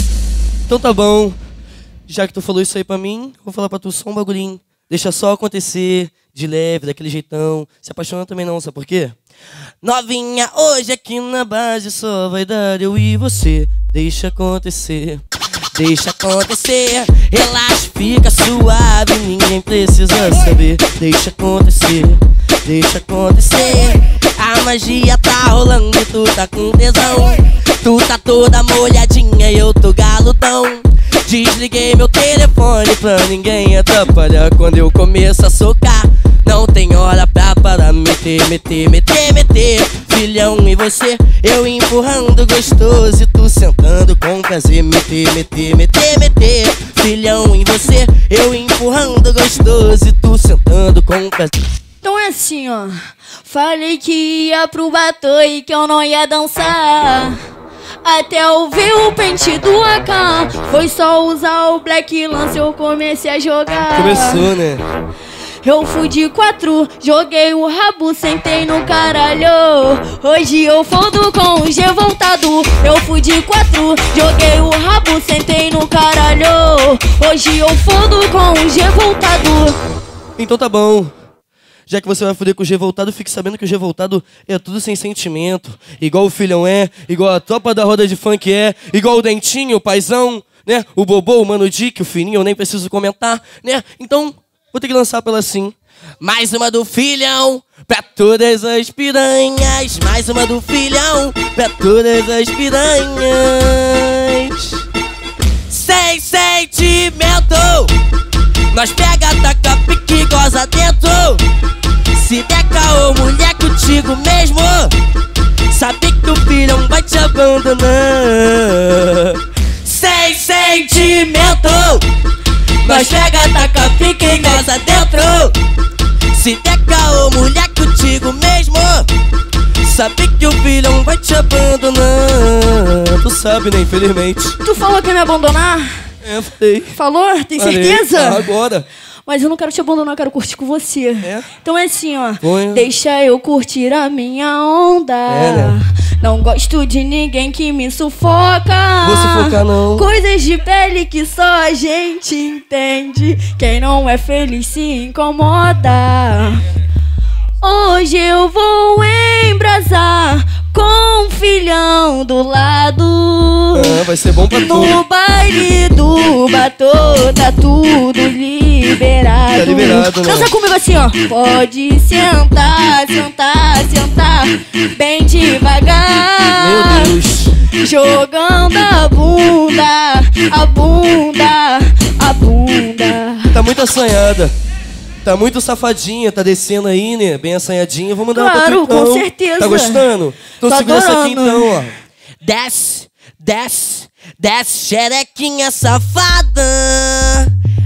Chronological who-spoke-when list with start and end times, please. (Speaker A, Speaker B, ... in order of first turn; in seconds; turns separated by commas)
Speaker A: 0.7-1.4, Speaker A: 2.1-9.2, Speaker A: 9.8-51.5, Speaker B: 52.0-57.4, Speaker B: 58.0-64.5, Speaker A: 63.9-64.8, Speaker B: 65.6-79.8, Speaker A: 80.4-81.1, Speaker A: 81.9-104.8, Speaker A: 105.7-107.9, Speaker A: 108.7-111.4, Speaker A: 112.1-114.9, Speaker A: 115.7-122.0, Speaker A: 122.8-125.5, Speaker B: 122.8-125.0, Speaker A: 126.3-129.1, Speaker A: 129.8-134.6, Speaker B: 134.6-136.1, Speaker A: 136.2-136.9, Speaker B: 136.9-138.5, Speaker A: 137.6-138.9, Speaker B: 139.2-156.6, Speaker A: 141.2-141.5, Speaker A: 142.4-142.9, Speaker A: 145.3-145.8, Speaker A: 149.0-150.1, Speaker B: 157.6-164.0, Speaker A: 163.7-165.0, Speaker B: 164.5-177.1, Speaker A: 169.5-170.5, Speaker A: 176.5-177.5, Speaker B: 177.8-183.6, Speaker A: 183.5-184.5, Speaker A: 185.2-197.5, Speaker B: 188.3-190.1, Speaker B: 190.6-191.8